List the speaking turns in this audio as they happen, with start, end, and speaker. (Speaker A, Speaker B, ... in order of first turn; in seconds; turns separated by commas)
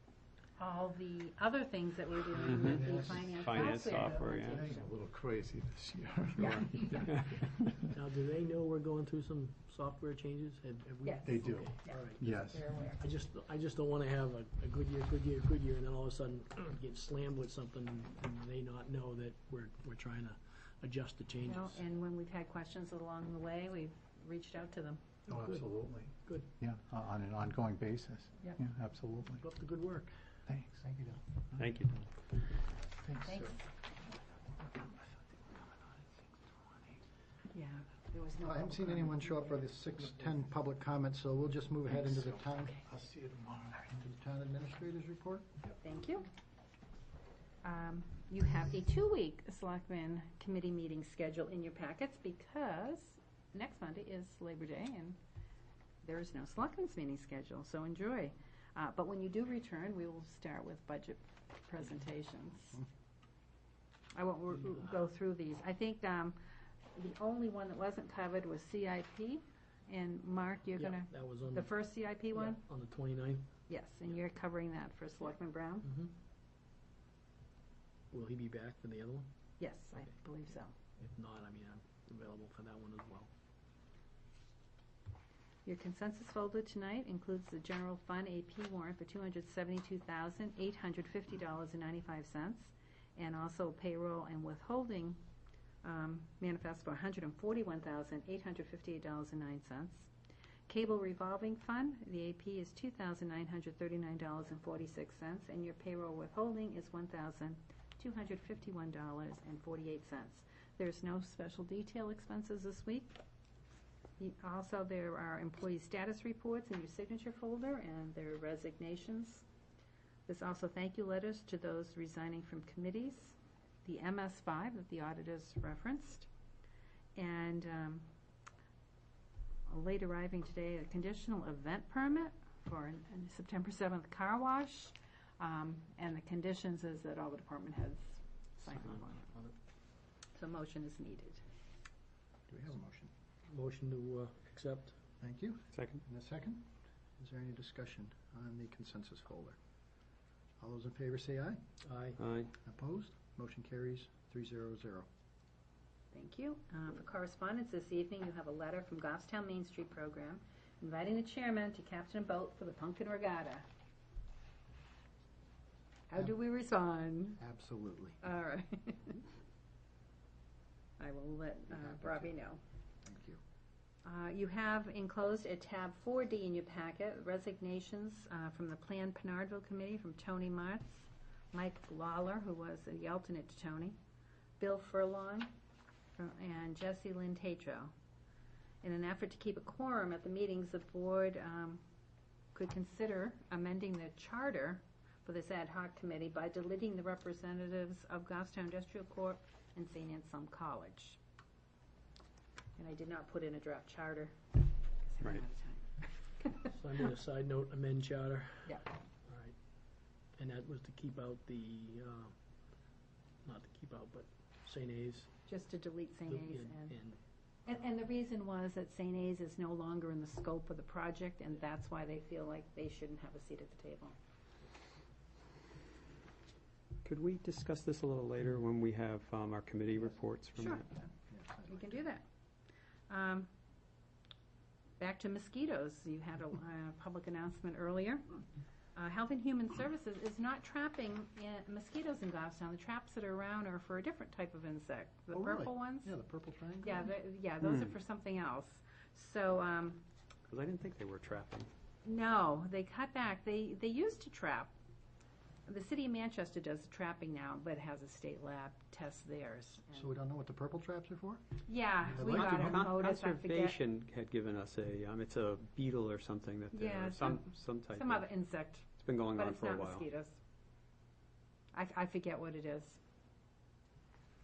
Speaker A: 0.6-4.9, Speaker B: 2.5-4.7, Speaker C: 2.6-4.5, Speaker D: 4.5-7.9, Speaker A: 6.4-7.0, Speaker B: 6.4-7.4, Speaker E: 7.9-12.3, Speaker A: 11.0-13.0, Speaker D: 11.2-12.9, Speaker E: 12.9-21.8, Speaker A: 21.4-25.0, Speaker E: 25.3-25.7, Speaker D: 25.3-29.4, Speaker E: 26.2-26.5, Speaker E: 29.4-30.1, Speaker D: 30.5-30.8, Speaker C: 30.8-31.2, Speaker D: 31.5-32.0, Speaker B: 31.6-32.0, Speaker D: 33.0-33.6, Speaker A: 33.2-33.7, Speaker D: 34.6-35.6, Speaker A: 37.5-39.5, Speaker C: 38.4-42.8, Speaker D: 42.8-43.9, Speaker C: 43.8-45.5, Speaker A: 45.8-46.3, Speaker A: 47.6-55.2, Speaker A: 56.0-62.8, Speaker A: 64.1-66.4, Speaker A: 66.9-72.6, Speaker E: 70.8-73.5, Speaker A: 73.7-75.9, Speaker E: 75.8-76.1, Speaker E: 78.1-79.3, Speaker A: 79.6-80.7, Speaker E: 81.0-83.3, Speaker A: 85.7-95.2, Speaker A: 95.8-100.1, Speaker A: 100.7-113.2, Speaker A: 114.2-119.5, Speaker A: 120.3-126.3, Speaker A: 127.2-128.1, Speaker A: 129.7-139.4, Speaker E: 138.7-139.5, Speaker A: 140.3-141.4, Speaker C: 142.5-143.1, Speaker E: 143.5-145.0, Speaker C: 145.2-149.6, Speaker B: 145.7-146.0, Speaker C: 150.6-151.6, Speaker E: 151.8-152.2, Speaker B: 152.2-152.5, Speaker C: 152.6-155.1, Speaker A: 156.1-163.7, Speaker A: 166.1-167.4, Speaker C: 167.4-168.2, Speaker A: 168.2-169.2, Speaker A: 171.0-172.6, Speaker C: 171.7-172.3, Speaker C: 173.0-173.4, Speaker A: 174.1-184.0, Speaker A: 184.6-185.5, Speaker A: 186.2-187.9, Speaker A: 188.8-191.8, Speaker A: 192.5-201.2, Speaker A: 202.8-204.4, Speaker A: 205.0-206.7, Speaker E: 206.7-209.6, Speaker E: 210.4-212.3, Speaker E: 213.4-215.3, Speaker A: 215.5-217.0, Speaker E: 216.3-217.2, Speaker A: 217.7-224.2, Speaker B: 227.0-230.9, Speaker A: 230.6-230.8, Speaker C: 230.8-232.0, Speaker A: 231.7-232.2, Speaker A: 233.1-233.5, Speaker A: 235.0-238.3, Speaker A: 238.9-246.1, Speaker C: 245.3-247.1, Speaker A: 246.8-250.0, Speaker B: 247.6-247.9, Speaker B: 250.5-251.7, Speaker A: 252.1-254.7, Speaker A: 255.7-260.1, Speaker C: 259.9-261.4, Speaker A: 261.7-263.8, Speaker C: 262.1-262.9, Speaker B: 262.1-268.2, Speaker A: 266.7-270.4, Speaker B: 269.0-270.1, Speaker A: 271.7-273.0